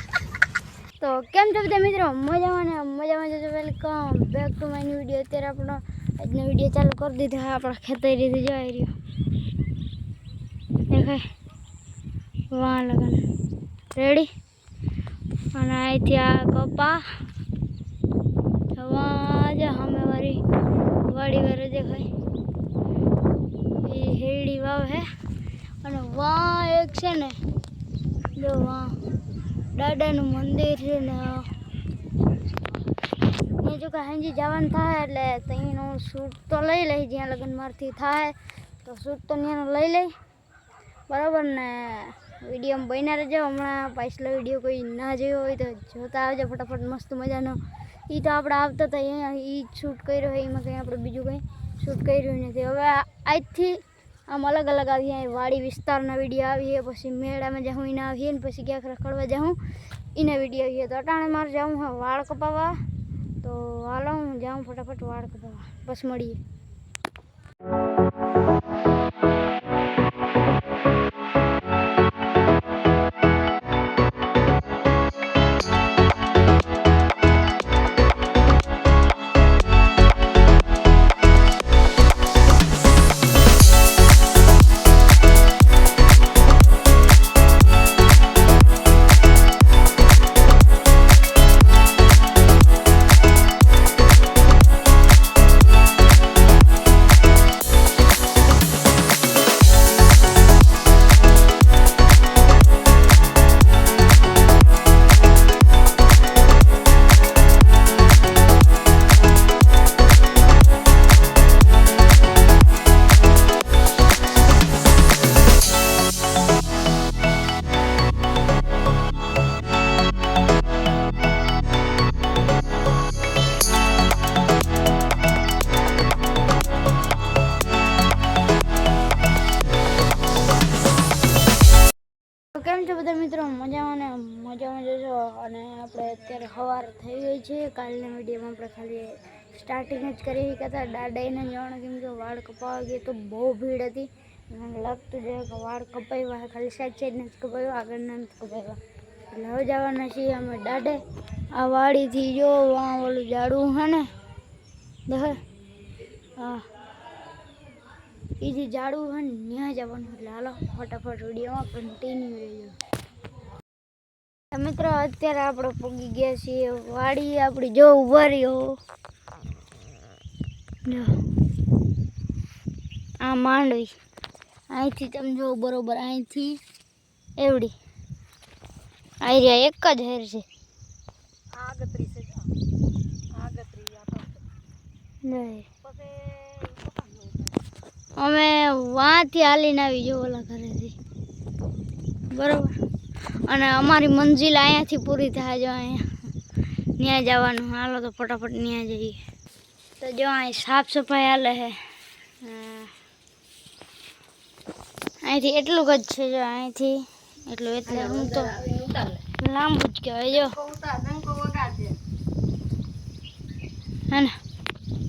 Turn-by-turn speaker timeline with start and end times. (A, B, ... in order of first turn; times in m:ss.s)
0:01.0-0:08.9 A
0:10.9-0:11.3 A
0:12.5-0:13.2 A
0:13.9-0:14.3 A
0:15.5-0:17.2 A
0:18.7-0:20.4 A
0:21.0-0:22.1 A
0:23.8-0:25.1 A
0:25.8-0:27.4 A
0:28.3-0:29.0 A
0:29.7-0:31.5 A
0:33.5-0:40.1 A
0:41.1-0:59.6 A
1:00.1-1:02.8 A
1:03.4-1:06.4 A
2:12.5-2:34.1 A
2:35.1-2:35.4 A
2:36.4-2:36.7 A
2:38.4-2:42.8 A
2:44.5-2:48.8 A
2:50.8-2:51.2 A
2:53.2-2:54.0 A
2:54.7-2:56.6 A
2:57.4-2:57.7 A
2:59.2-3:00.5 A
3:01.5-3:02.4 B
3:03.3-3:04.4 B
3:05.2-3:05.7 A
3:06.0-3:07.5 B
3:08.2-3:11.0 A
3:12.3-3:12.8 A
3:13.3-3:16.3 A
3:17.0-3:19.2 A
3:20.0-3:22.9 A
3:25.2-3:28.7 A
3:28.5-3:29.2 B
3:29.3-3:30.7 A
3:30.6-3:32.0 B
3:34.1-3:34.4 A